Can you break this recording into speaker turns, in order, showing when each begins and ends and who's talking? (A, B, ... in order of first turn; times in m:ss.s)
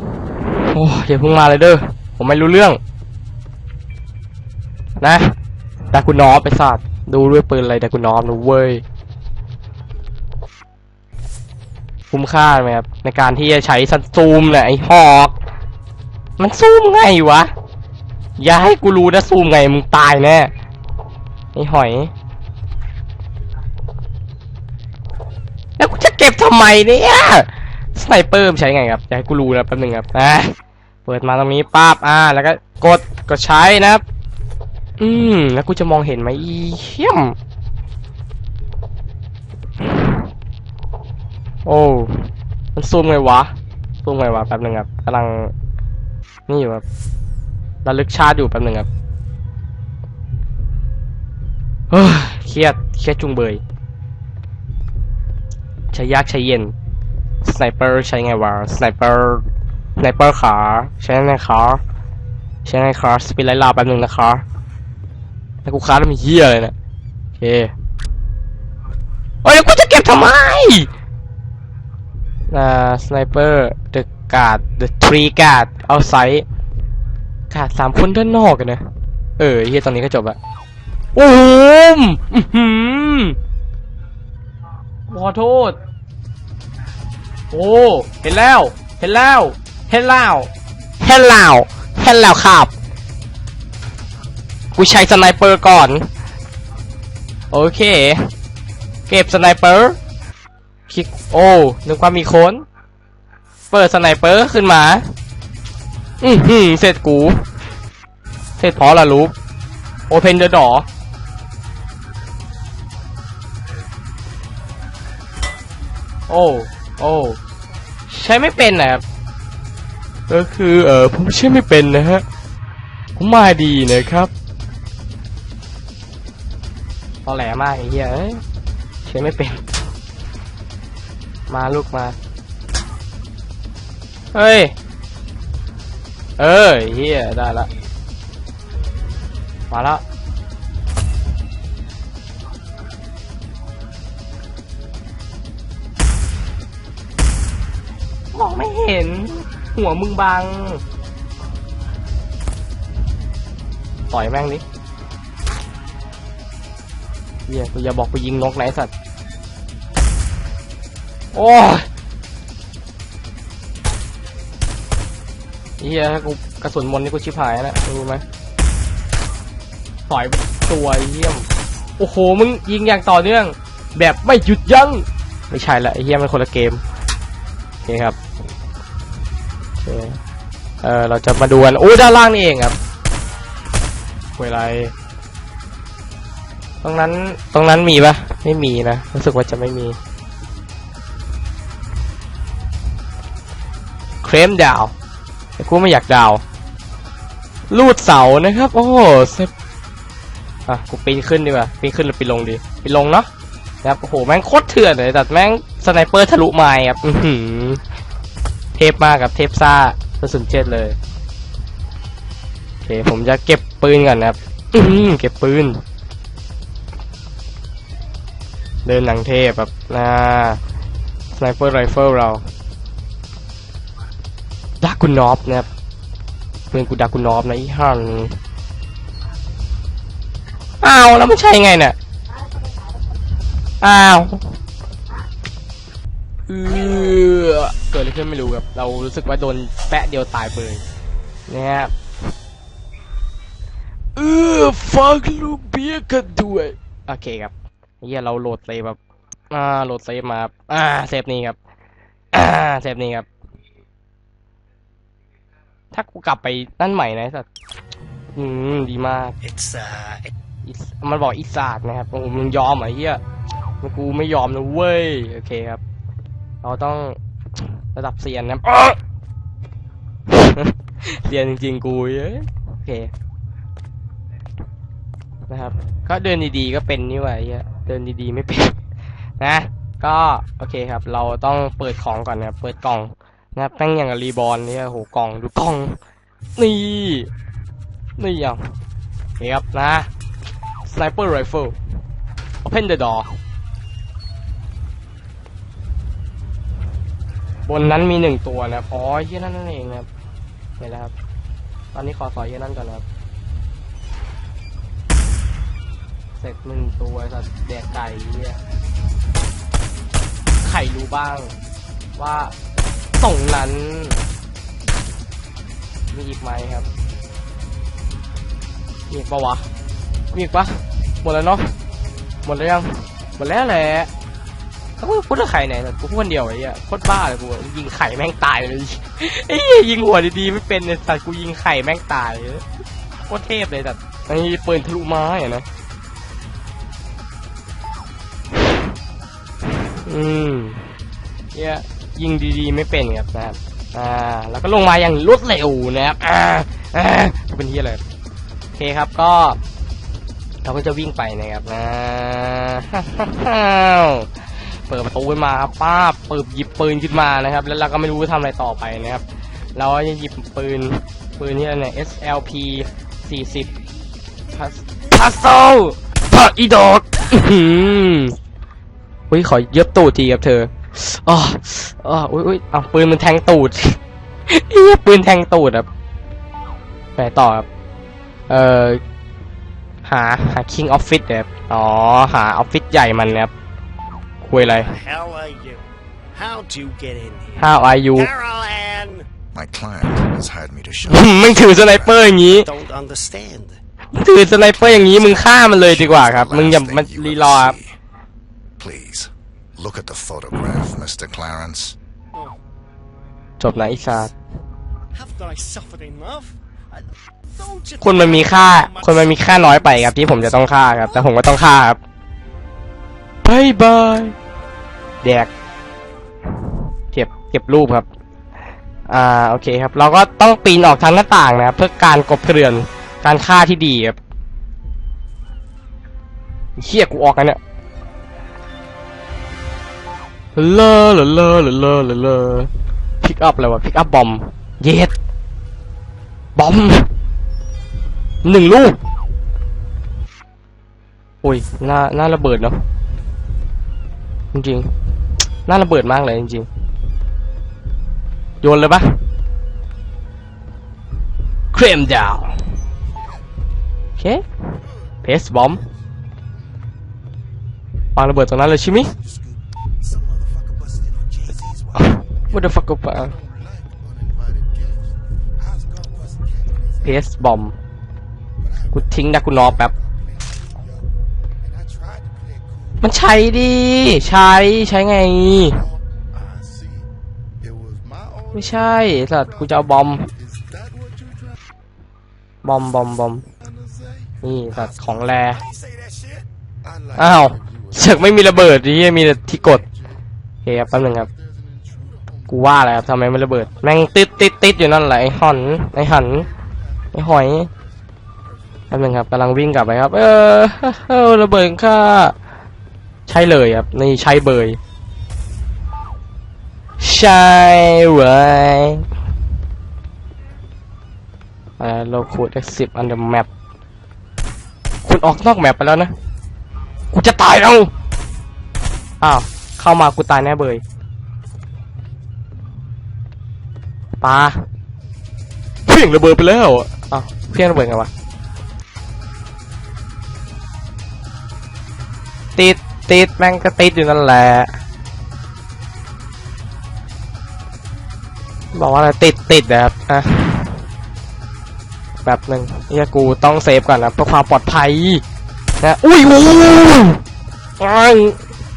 0:00.5-0:02.8 A
0:05.0-0:05.3 A
0:05.9-0:08.8 A
0:12.1-0:15.3 A
0:16.4-0:17.5 A
0:18.4-0:20.5 A
0:21.5-0:22.1 A
0:25.8-0:30.5 A
0:31.0-0:34.0 A
0:35.0-0:37.4 A
0:39.8-0:40.2 A
0:41.6-0:43.5 A
0:44.0-0:45.5 A
0:46.5-0:46.8 A
0:47.8-0:48.9 A
0:51.9-0:53.6 A
0:55.9-0:56.7 A
0:57.4-1:01.8 A
1:02.6-1:04.4 A
1:05.6-1:06.7 A
1:07.4-1:07.7 A
1:09.4-1:10.9 A
1:12.5-1:16.4 A
1:17.5-1:18.8 A
1:19.4-1:20.4 A
1:21.1-1:23.4 A
1:25.1-1:25.8 A
1:27.5-1:30.5 A
1:31.0-1:32.7 A
1:34.7-1:36.1 A
1:37.5-1:38.3 A
1:39.1-1:40.0 A
1:40.9-1:42.6 A
1:43.7-1:45.1 A
1:46.2-1:47.4 A
1:48.6-1:49.3 A
1:50.1-1:50.8 A
1:56.3-1:57.4 A
1:58.1-1:59.0 A
2:00.3-2:02.2 A
2:03.2-2:04.3 A
2:07.2-2:08.4 A
2:09.0-2:09.6 A
2:11.5-2:12.2 A
2:14.3-2:14.7 A
2:16.4-2:17.7 A
2:19.7-2:20.0 A
2:28.3-2:30.8 A
2:34.1-2:34.6 A
2:37.5-2:38.9 A
2:41.3-2:41.9 A
2:45.8-2:48.2 A
2:50.1-2:51.5 A
2:52.0-2:56.8 A
2:57.8-2:58.2 A
2:59.8-3:00.2 A
3:00.8-3:02.8 A
3:04.4-3:04.9 A
3:06.8-3:10.0 A
3:14.2-3:14.9 A
3:15.6-3:16.4 A
3:17.7-3:19.5 A
3:20.7-3:23.3 A
3:23.8-3:27.8 A
3:28.8-3:31.0 A
3:32.8-3:35.8 A
3:38.8-3:40.6 A
3:41.3-3:42.4 A
3:44.8-3:45.7 A
3:46.7-3:48.4 A
3:50.8-3:52.0 A
3:53.8-3:54.5 A
3:56.5-4:00.8 A
4:01.5-4:01.9 A
4:04.1-4:09.0 A
4:09.5-4:11.6 A
4:12.3-4:13.3 A
4:15.9-4:17.5 A
4:18.3-4:19.4 A
4:19.4-4:20.3 B
4:20.6-4:23.2 A
4:23.8-4:25.8 A
4:26.6-4:29.0 A
4:30.3-4:33.1 A
4:35.5-4:38.8 A
4:39.4-4:46.0 A
4:46.6-4:47.3 A
4:48.2-4:48.7 A
4:49.4-4:50.1 A
4:50.8-4:51.8 A
4:52.6-4:53.4 A
4:57.7-5:00.1 A
5:00.8-5:01.1 A
5:01.9-5:03.0 A
5:06.4-5:08.6 A
5:10.6-5:11.5 A
5:12.2-5:12.5 A
5:13.2-5:14.2 A
5:16.1-5:16.9 A
5:19.1-5:19.7 A
5:20.3-5:21.7 A
5:22.4-5:24.1 A
5:25.0-5:32.6 A
5:33.2-5:35.6 A
5:39.9-5:40.9 A
5:41.5-5:48.0 A
5:48.7-5:49.6 A
5:50.6-5:59.2 A
5:59.7-6:03.7 A
6:04.5-6:08.4 A
6:09.3-6:15.9 A
6:17.2-6:17.7 A
6:18.5-6:19.0 A
6:20.0-6:23.5 A
6:24.4-6:24.9 A
6:24.6-6:29.3 B
6:27.6-6:28.3 A
6:29.5-6:32.3 C
6:31.1-6:32.7 A
6:32.5-6:33.8 B
6:34.1-6:37.8 A
6:34.6-6:38.0 C
6:38.8-6:42.0 C
6:42.3-6:42.6 B
6:43.6-6:44.3 A
6:45.1-6:51.4 B
6:48.0-6:52.0 A
6:53.4-6:54.3 A
6:55.2-6:55.5 A
6:57.1-6:58.1 A
6:59.1-7:04.2 A
7:06.8-7:07.6 A
7:10.5-7:12.7 A
7:13.2-7:15.1 A
7:16.6-7:17.1 A
7:18.4-7:19.0 A
7:21.4-7:22.8 A
7:24.5-7:24.9 A
7:25.6-7:26.7 A
7:28.6-7:29.2 A
7:31.7-7:32.6 A
7:33.1-7:33.4 B
7:34.2-7:34.4 A
7:35.2-7:35.8 A
7:38.1-7:39.1 A
7:39.0-7:47.3 B
7:41.9-7:43.3 A
7:47.0-7:47.8 A
7:48.6-7:51.1 B
7:48.9-7:49.9 A
7:51.6-7:53.1 B
7:53.0-7:55.8 A
7:55.8-7:57.1 B
7:57.6-7:58.6 B
7:58.5-8:00.3 A
8:00.4-8:01.5 B
8:02.6-8:03.5 A
8:03.7-8:07.8 B
8:04.4-8:05.6 A
8:07.1-8:09.8 A
8:10.6-8:11.3 A
8:11.7-8:12.2 B
8:12.5-8:16.5 A
8:17.1-8:17.7 A
8:18.9-8:22.3 A
8:23.3-8:24.8 A
8:27.0-8:29.0 A
8:31.8-8:33.5 A
8:35.0-8:36.1 A
8:37.1-8:37.9 A
8:39.2-8:40.8 A
8:44.2-8:44.6 A
8:45.9-8:48.1 A
8:52.6-8:54.7 A
8:58.7-9:00.7 A
9:02.2-9:05.2 A
9:05.8-9:07.2 A
9:07.8-9:08.4 A